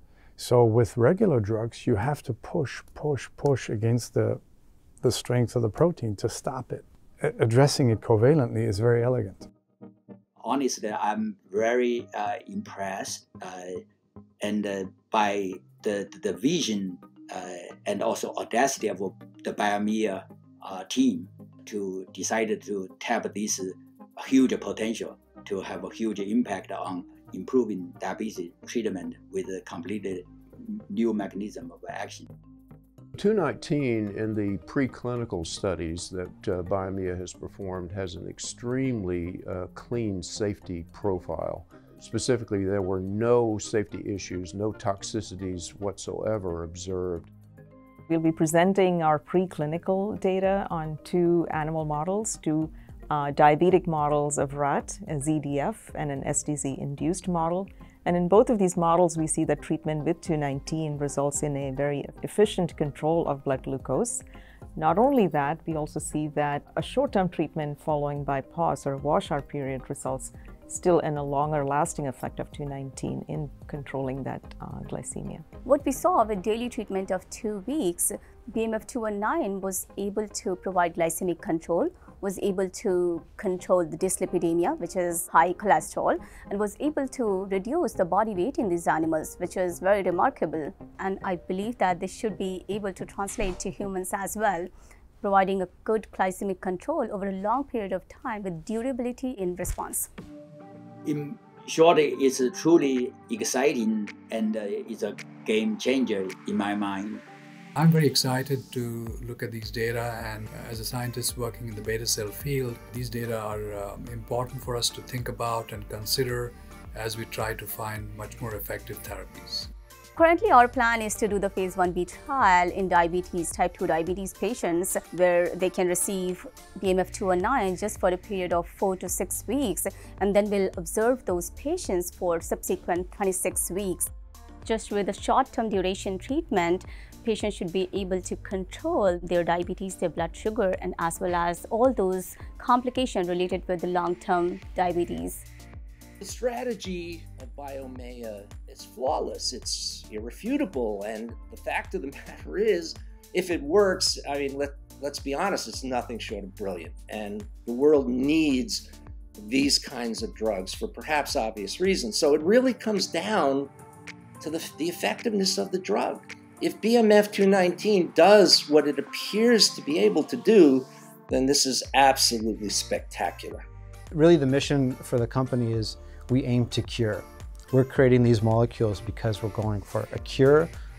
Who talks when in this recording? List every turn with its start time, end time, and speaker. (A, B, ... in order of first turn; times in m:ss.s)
0:00.4-0:04.4 A
0:05.0-0:09.4 A
0:10.4-0:13.7 B
0:14.4-0:32.3 B
0:33.2-0:47.3 C
0:48.1-1:04.2 D
1:04.8-1:15.4 D
1:15.6-1:34.7 E
1:35.2-1:40.1 E
1:41.0-1:47.2 B
1:47.8-1:59.7 F
2:00.2-2:14.1 E
2:14.6-2:25.4 E
2:26.2-2:43.7 G
2:44.4-2:53.7 G
2:54.1-3:00.7 H